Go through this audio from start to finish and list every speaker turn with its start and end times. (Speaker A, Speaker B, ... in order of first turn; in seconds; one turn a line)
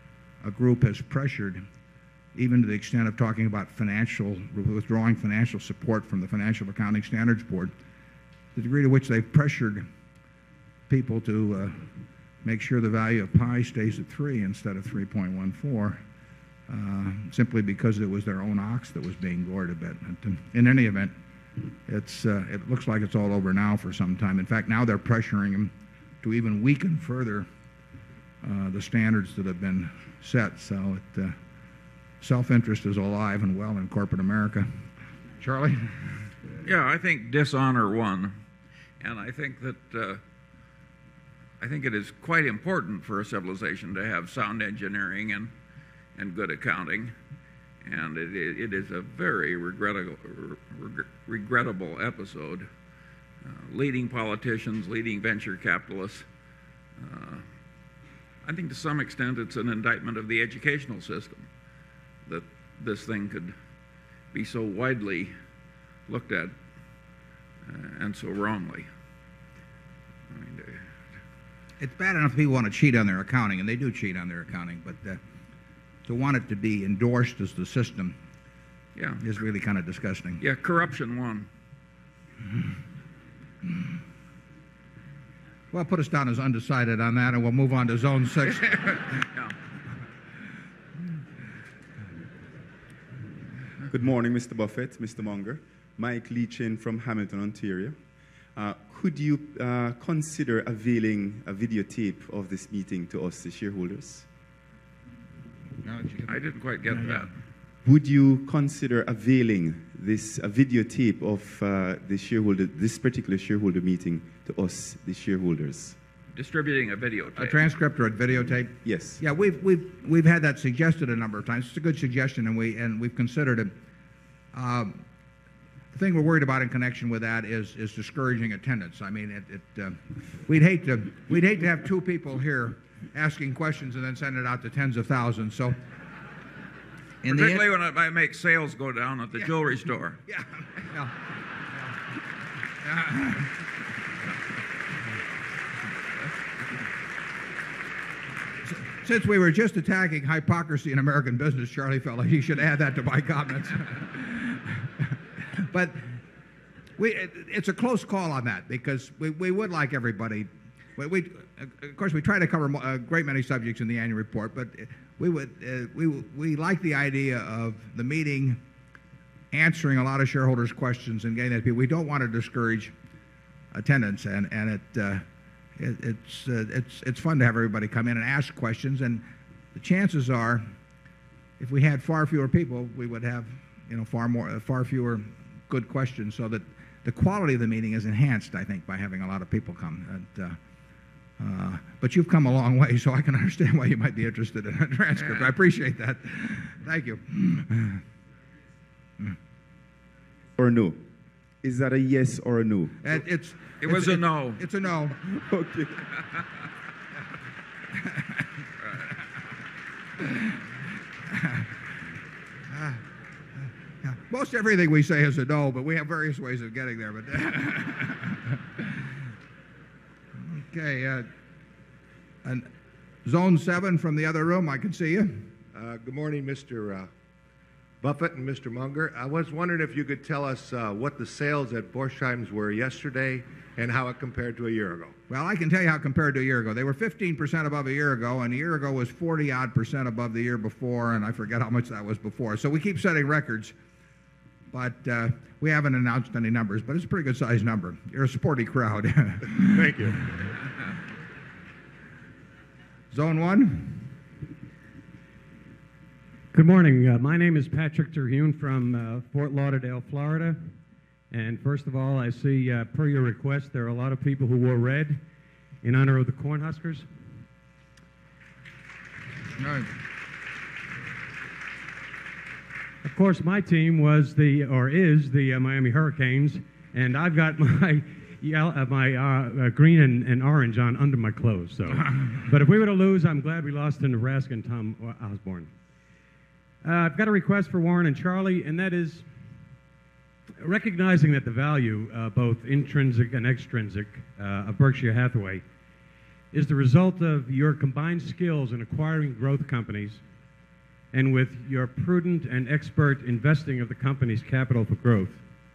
Speaker A: 0.4-1.6
Speaker A: 2.3-7.7
Speaker A: 8.5-9.9
Speaker A: 10.9-11.8
Speaker A: 12.4-16.0
Speaker A: 16.7-21.1
Speaker A: 21.9-27.5
Speaker A: 28.4-31.4
Speaker A: 32.2-34.7
Speaker A: 35.4-36.1
Speaker B: 36.6-38.4
Speaker B: 39.0-40.2
Speaker B: 41.6-45.5
Speaker B: 46.1-47.1
Speaker B: 47.8-52.7
Speaker B: 53.4-56.2
Speaker B: 57.0-57.5
Speaker B: 58.4-61.5
Speaker B: 62.3-63.5
Speaker B: 64.3-65.3
Speaker B: 66.1-66.5
Speaker B: 67.7-68.9
Speaker B: 70.3-70.8
Speaker A: 71.8-75.2
Speaker A: 76.0-78.2
Speaker B: 79.0-79.2
Speaker A: 79.2-80.4
Speaker B: 80.4-81.5
Speaker A: 85.7-89.1
Speaker C: 93.9-98.0
Speaker C: 98.5-104.3
Speaker A: 105.8-106.3
Speaker B: 106.3-107.3
Speaker A: 106.9-107.2
Speaker C: 107.8-116.0
Speaker B: 116.3-117.6
Speaker A: 117.3-123.7
Speaker C: 118.8-119.2
Speaker A: 124.5-125.0
Speaker A: 125.9-135.8
Speaker B: 137.2-140.2
Speaker A: 137.3-137.7
Speaker A: 140.3-141.1
Speaker A: 142.8-143.5
Speaker A: 148.6-154.9
Speaker A: 155.6-156.2
Speaker A: 157.0-168.6
Speaker A: 169.5-172.9
Speaker A: 173.7-175.2
Speaker A: 175.8-179.2
Speaker A: 179.7-180.6
Speaker A: 181.6-190.6
Speaker A: 191.4-198.0
Speaker C: 200.6-201.0
Speaker C: 201.6-203.2
Speaker A: 203.0-205.1
Speaker B: 203.8-204.6
Speaker C: 205.2-205.9
Speaker A: 210.2-210.5
Speaker A: 211.3-211.6
Speaker A: 212.7-213.0
Speaker A: 214.0-219.1
Speaker A: 220.4-221.3
Speaker A: 223.2-225.5
Speaker D: 225.7-227.1
Speaker D: 228.0-235.2
Speaker A: 235.3-243.7
Speaker A: 244.7-250.0
Speaker A: 253.1-254.1
Speaker E: 256.5-260.6
Speaker E: 261.3-265.2
Speaker E: 265.8-267.1
Speaker E: 273.0-285.7
Speaker E: 286.8-289.2
Speaker E: 290.6-295.6
Speaker E: 296.5-300.2
Speaker E: 301.1-305.4